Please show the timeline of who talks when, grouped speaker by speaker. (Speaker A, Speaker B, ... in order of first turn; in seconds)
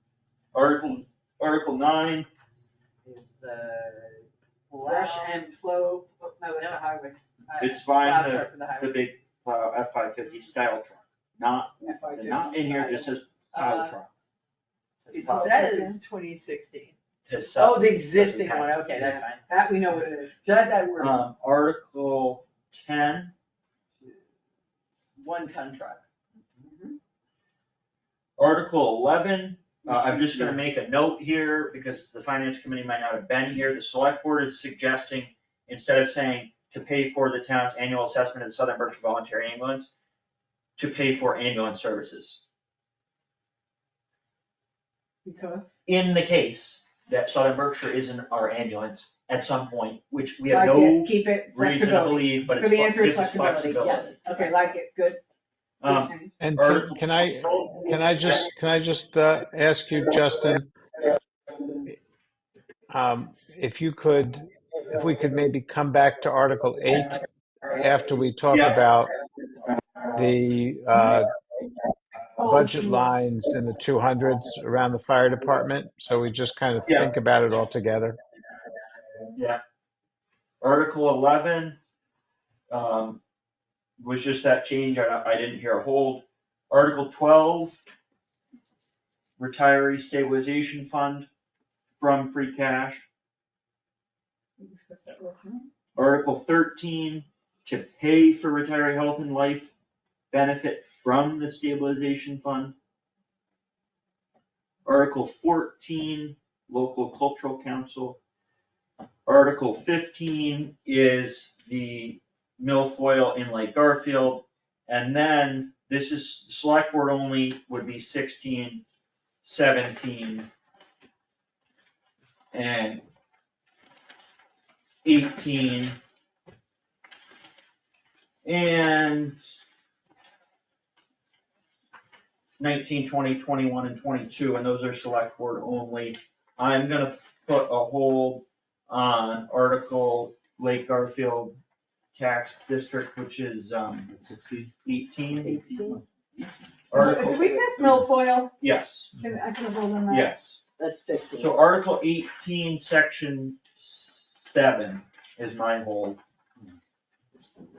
Speaker A: 0.5-2.3, 7.6-14.1, 15.2-15.6, 17.2-19.1, 21.0-23.3, 28.4-39.9, 40.8-42.4, 45.9-54.2, 55.8-57.0, 68.5-68.8, 80.6-81.8, 82.7-83.2, 84.0-87.8, 89.4-91.3, 92.0-93.0, 96.0-99.7, 100.3-102.7, 104.8-108.2, 109.2-118.8, 119.4-120.5, 122.5-123.0, 125.0-126.0, 128.4-129.4, 132.6-141.6, 142.2-144.1, 144.8-145.5, 146.9-147.4, 148.6-149.1, 150.1-150.6, 151.4-156.2
Speaker B: 3.0-5.4, 7.9-9.0, 13.5-13.9, 15.0-16.9, 17.5-19.5, 20.4-21.1, 24.9-26.0, 26.6-26.9, 29.9-30.5, 53.8-54.7, 145.4-146.0, 150.8-151.6
Speaker C: 4.8-7.9, 11.8-13.1, 15.1-16.0, 19.5-20.4, 45.2-45.7, 50.5-55.2, 55.9-56.3, 72.4-73.0, 94.6-95.7, 146.9-148.5, 149.1-150.3
Speaker D: 56.4-60.7, 62.9-69.1, 70.1-71.3, 72.4-78.2
Speaker E: 144.1-144.7, 145.3-147.1, 147.6-148.0